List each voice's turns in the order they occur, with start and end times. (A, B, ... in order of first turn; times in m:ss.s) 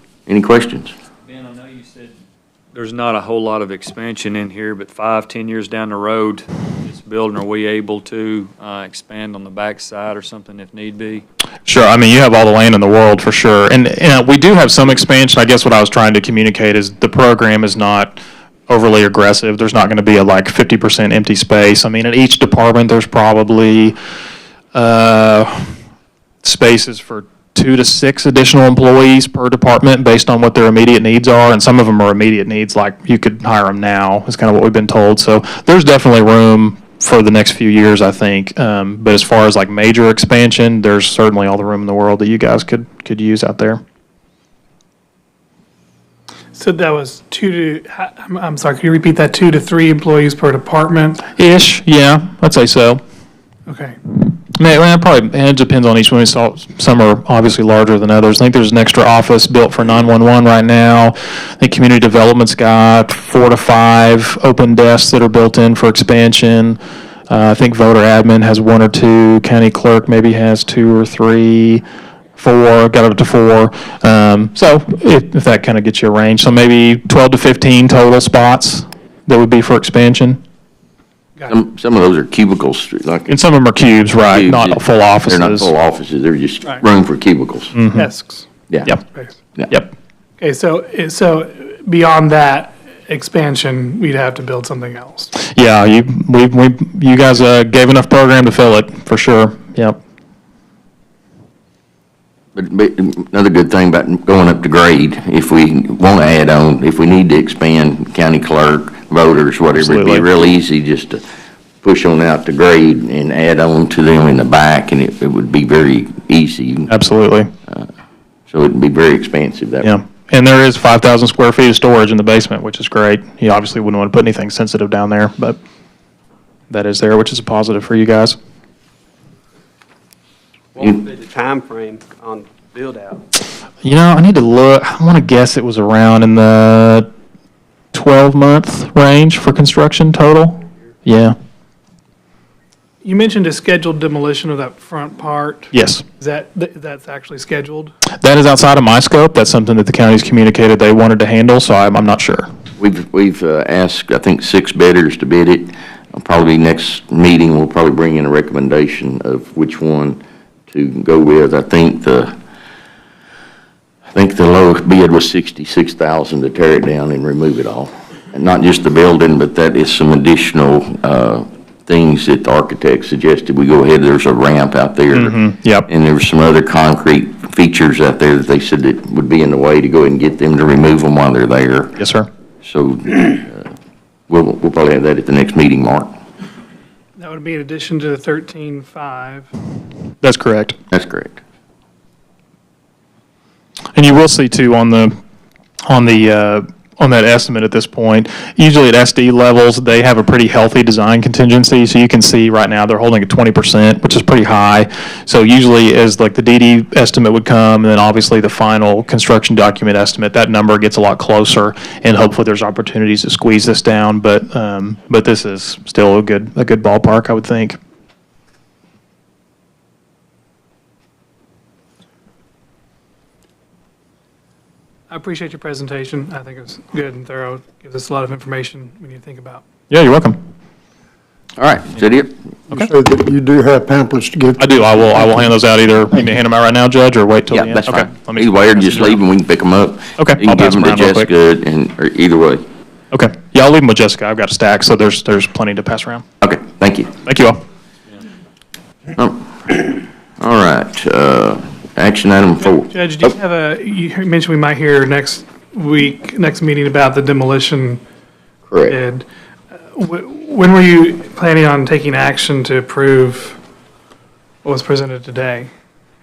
0:00.3-0:00.9 A
0:01.3-0:02.1 B
0:02.8-0:11.2 B
0:11.7-0:24.0 C
0:24.7-0:25.7 C
0:26.4-0:43.8 C
0:46.5-0:51.3 D
0:51.4-0:53.0 C
0:53.7-0:54.0 D
0:54.3-1:11.8 C
1:12.4-1:20.4 C
1:21.5-1:23.4 A
1:23.3-1:25.7 C
1:24.3-1:27.8 A
1:27.8-1:28.1 C
1:27.9-1:28.5 D
1:30.4-1:35.3 D
1:35.4-1:40.0 C
1:42.6-1:51.2 A
1:49.7-1:50.3 C
1:51.8-1:56.9 A
1:56.9-1:57.5 C
1:58.5-1:59.9 A
1:59.8-2:05.6 C
2:06.7-2:08.4 C
2:10.8-2:13.2 E
2:13.8-2:17.1 C
2:17.9-2:21.4 C
2:23.0-2:27.9 D
2:25.7-2:26.0 C
2:28.2-2:32.5 C
2:32.8-2:42.3 A
2:44.1-3:02.0 A
2:55.1-2:55.9 C
3:02.0-3:02.3 C
3:02.6-3:03.7 A
3:04.3-3:06.1 A
3:07.2-3:09.5 D
3:10.2-3:10.8 C
3:10.9-3:11.4 A
3:14.0-3:15.2 C
3:15.9-3:37.8 C
3:45.1-3:49.6 D
3:49.9-3:50.4 C
3:51.6-3:52.3 A
3:52.7-3:55.4 F
3:54.6-3:59.2 C
3:57.5-4:02.6 A
4:00.2-4:01.3 C
4:03.1-4:06.2 C
4:06.4-4:07.1 A
4:07.2-4:07.6 C
4:09.2-4:13.3 A
4:12.8-4:18.0 D
4:18.7-4:19.0 A
4:18.9-4:19.2 D
4:19.9-4:23.6 D
4:24.6-4:25.7 D